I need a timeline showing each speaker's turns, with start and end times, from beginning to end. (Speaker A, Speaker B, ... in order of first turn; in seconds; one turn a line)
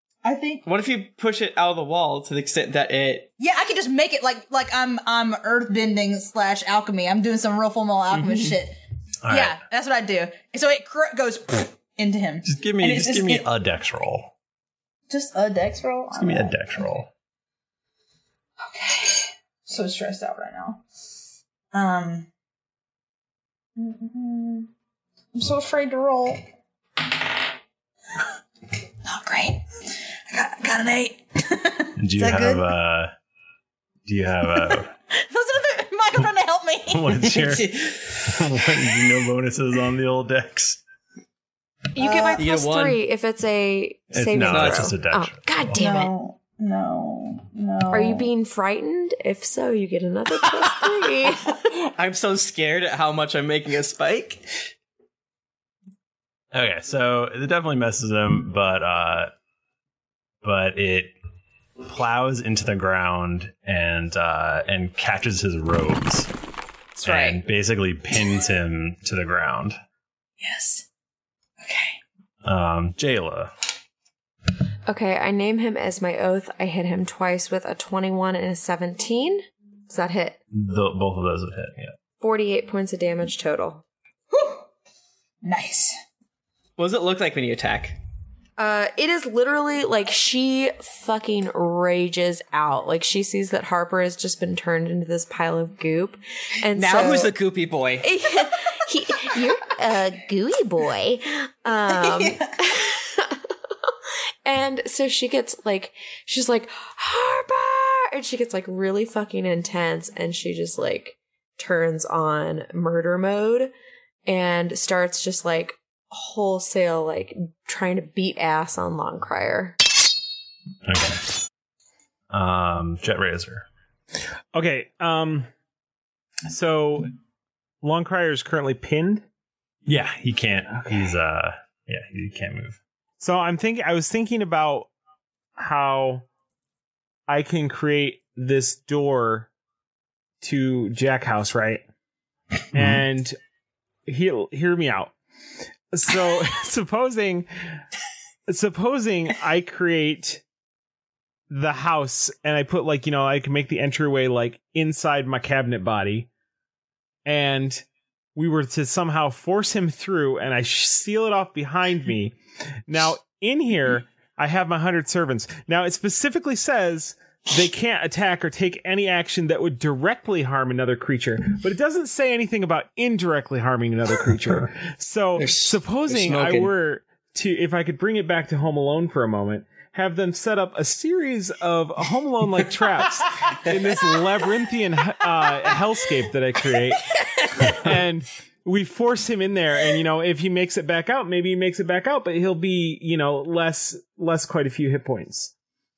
Speaker A: 0.2-0.6
Speaker B: 0.6-3.3
Speaker A: 3.4-13.5
Speaker C: 9.2-9.6
Speaker C: 12.4-14.3
Speaker A: 15.1-16.9
Speaker C: 16.1-17.1
Speaker A: 18.6-20.8
Speaker A: 21.7-22.3
Speaker A: 23.8-24.7
Speaker A: 25.3-26.4
Speaker A: 29.0-32.8
Speaker C: 32.0-33.1
Speaker C: 34.0-34.9
Speaker A: 34.5-37.5
Speaker C: 36.9-40.8
Speaker D: 41.9-46.1
Speaker A: 42.0-42.4
Speaker B: 42.4-43.0
Speaker C: 44.1-45.8
Speaker B: 44.4-44.9
Speaker A: 45.8-48.3
Speaker D: 47.9-51.6
Speaker B: 50.6-54.5
Speaker C: 56.5-59.3
Speaker C: 60.4-61.1
Speaker C: 61.8-66.3
Speaker C: 67.0-69.8
Speaker A: 67.0-67.4
Speaker A: 70.4-70.8
Speaker A: 71.6-72.0
Speaker C: 72.4-73.5
Speaker D: 74.9-80.4
Speaker C: 80.5-81.9
Speaker D: 82.2-83.8
Speaker A: 84.3-84.6
Speaker A: 85.4-86.0
Speaker B: 86.8-88.0
Speaker D: 88.6-97.3
Speaker B: 96.7-98.0
Speaker D: 98.0-103.4
Speaker A: 101.9-102.6
Speaker D: 104.4-113.7
Speaker D: 114.2-119.8
Speaker C: 120.8-121.2
Speaker C: 122.3-123.6
Speaker E: 124.5-125.5
Speaker E: 126.5-127.1
Speaker E: 127.8-129.2
Speaker C: 129.8-132.8
Speaker E: 130.7-131.1
Speaker E: 133.2-134.9
Speaker E: 135.6-136.2
Speaker E: 137.3-139.5
Speaker E: 140.4-141.8
Speaker E: 142.7-143.4
Speaker C: 142.7-143.0
Speaker E: 144.1-145.1
Speaker E: 145.9-147.5
Speaker E: 148.5-150.4
Speaker E: 151.5-156.3
Speaker E: 157.2-157.8
Speaker E: 158.3-162.3
Speaker E: 162.9-195.5
Speaker B: 175.4-176.7